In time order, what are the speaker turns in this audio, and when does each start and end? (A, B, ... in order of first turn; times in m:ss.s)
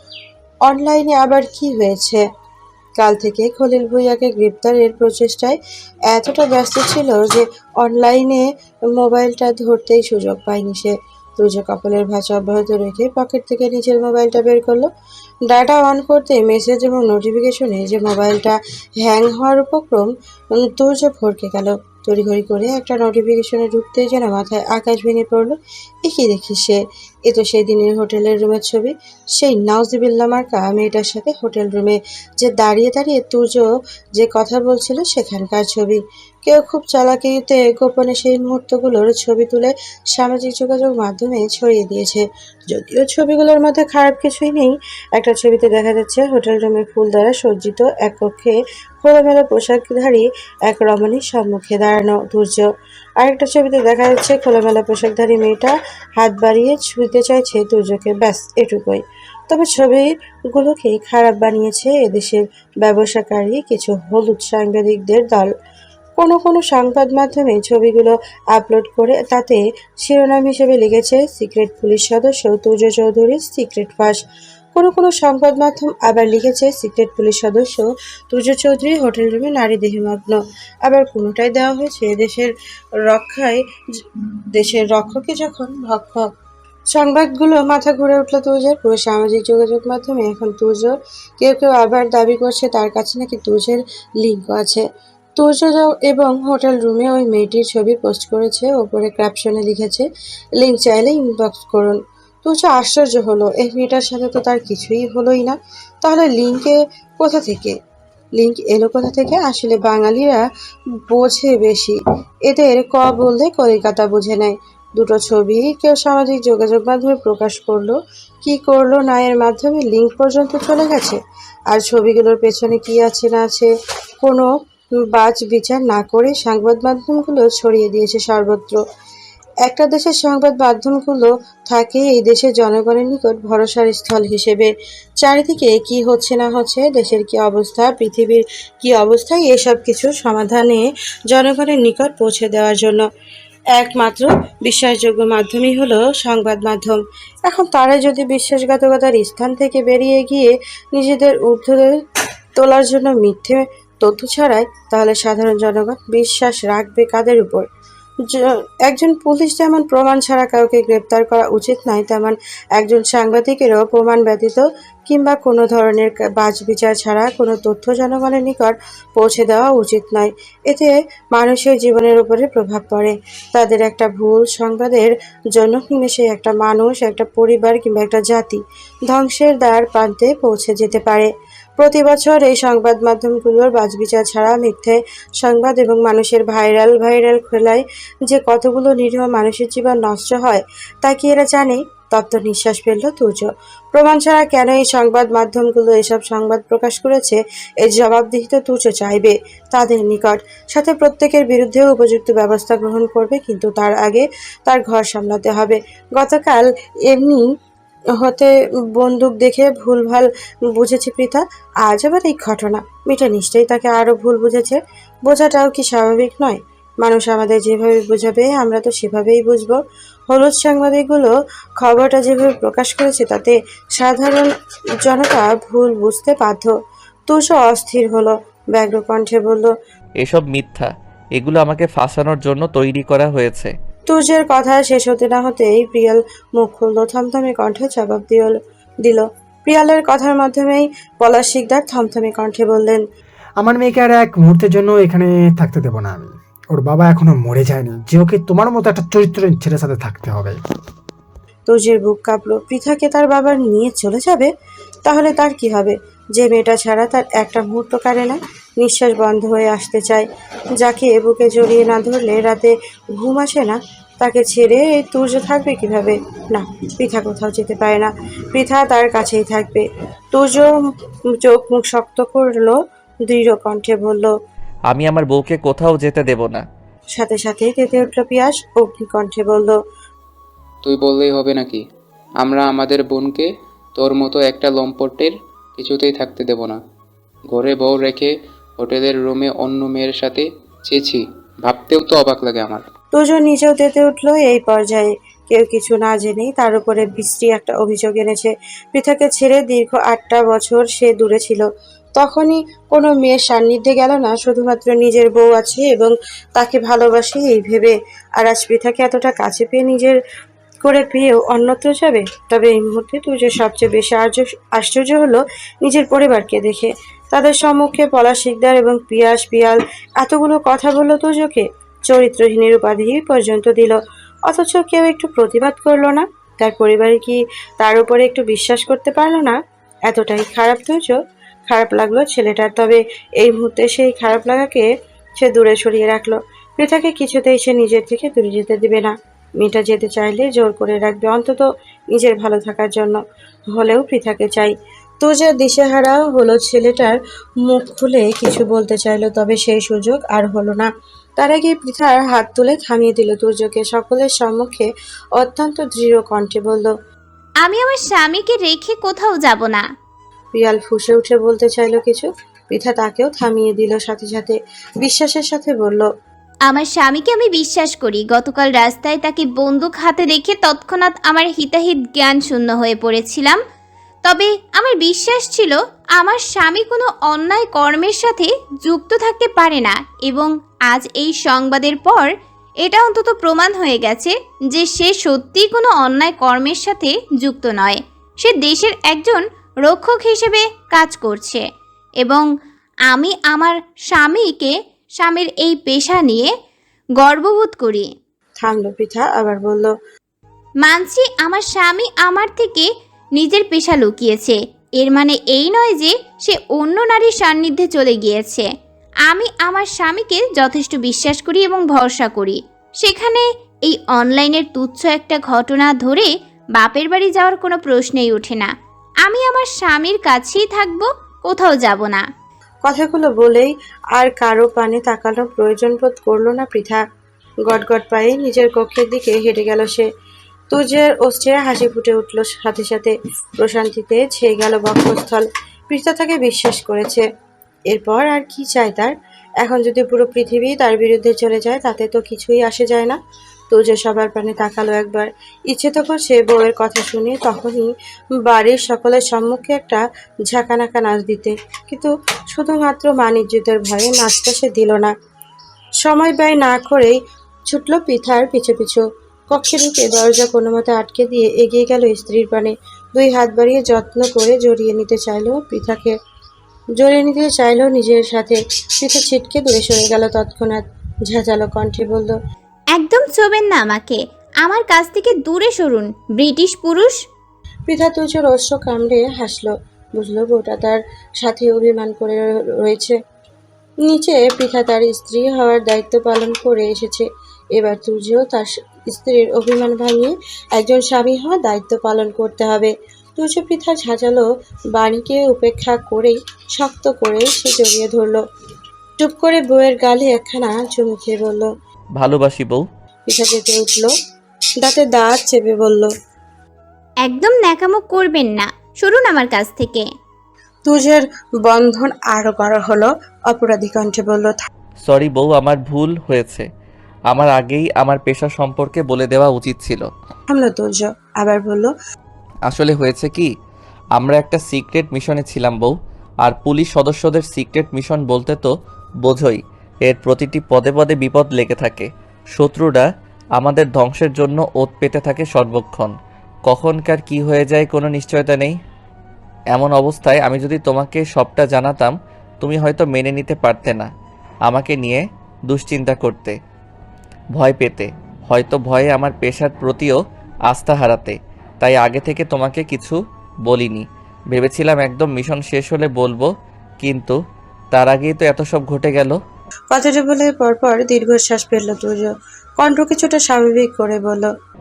0:00.6-0:02.2 A
0:03.0-0:05.6 A
0:06.1-0:14.9 A
0:15.5-0:52.7 A
0:53.2-1:05.5 A
1:06.2-1:14.2 A
1:14.7-1:22.5 A
1:23.0-1:26.3 A
1:26.9-1:34.8 A
1:35.4-1:40.0 A
1:40.6-1:47.7 A
1:48.4-1:50.4 A
1:51.1-2:03.7 A
2:04.2-2:04.5 A
2:05.1-2:08.8 A
2:09.6-2:14.7 A
2:15.2-2:23.0 A
2:23.7-2:32.0 A
2:32.6-2:37.6 A
2:38.3-3:27.4 A
3:28.2-3:39.8 A
3:40.3-3:44.5 A
3:45.0-3:46.7 A
3:47.3-3:49.7 A
3:50.2-3:53.7 B
3:54.1-4:03.0 A
4:03.6-4:10.6 C
4:11.7-4:14.5 A
4:15.0-4:20.3 A
4:20.8-4:30.7 A
4:31.4-4:32.8 A
4:33.3-4:34.3 A
4:34.9-4:36.6 B
4:37.1-4:39.8 A
4:40.8-4:41.8 D
4:42.4-4:46.8 D
4:47.5-4:52.8 D
4:53.1-5:01.6 A
5:02.2-5:10.2 A
5:10.8-5:34.9 A
5:35.4-5:43.2 A
5:43.7-5:56.9 A
5:57.6-5:59.8 E
6:00.6-6:06.1 A
6:06.7-6:13.6 E
6:14.2-6:22.3 E
6:22.8-6:31.6 E
6:32.2-6:32.5 E
6:33.1-6:36.5 E
6:37.2-6:38.1 E
6:38.6-6:39.9 A
6:40.8-6:48.7 E
6:49.3-6:58.7 E
6:59.2-7:02.2 E
7:02.8-7:07.0 A
7:07.7-7:10.1 A
7:10.7-7:17.2 A
7:17.9-7:23.2 A
7:23.7-7:27.9 A
7:28.4-7:35.1 A
7:36.0-7:46.1 A
7:47.0-7:52.4 A
7:52.9-7:57.2 E
7:57.9-8:03.2 A
8:04.0-8:18.4 A
8:19.2-8:21.7 A
8:22.2-8:22.8 B
8:23.3-8:24.1 A
8:24.8-8:26.1 A
8:27.2-8:30.0 E
8:30.8-8:34.6 A
8:35.0-8:36.7 B
8:37.3-8:40.1 B
8:40.5-8:41.9 A
8:42.7-8:43.5 B
8:44.2-8:56.1 B
8:56.7-8:58.8 B
8:59.7-9:04.1 B
9:04.7-9:06.6 B
9:07.6-9:10.2 B
9:10.7-9:16.5 B
9:17.0-9:17.4 B
9:17.9-9:19.4 B
9:19.9-9:24.5 A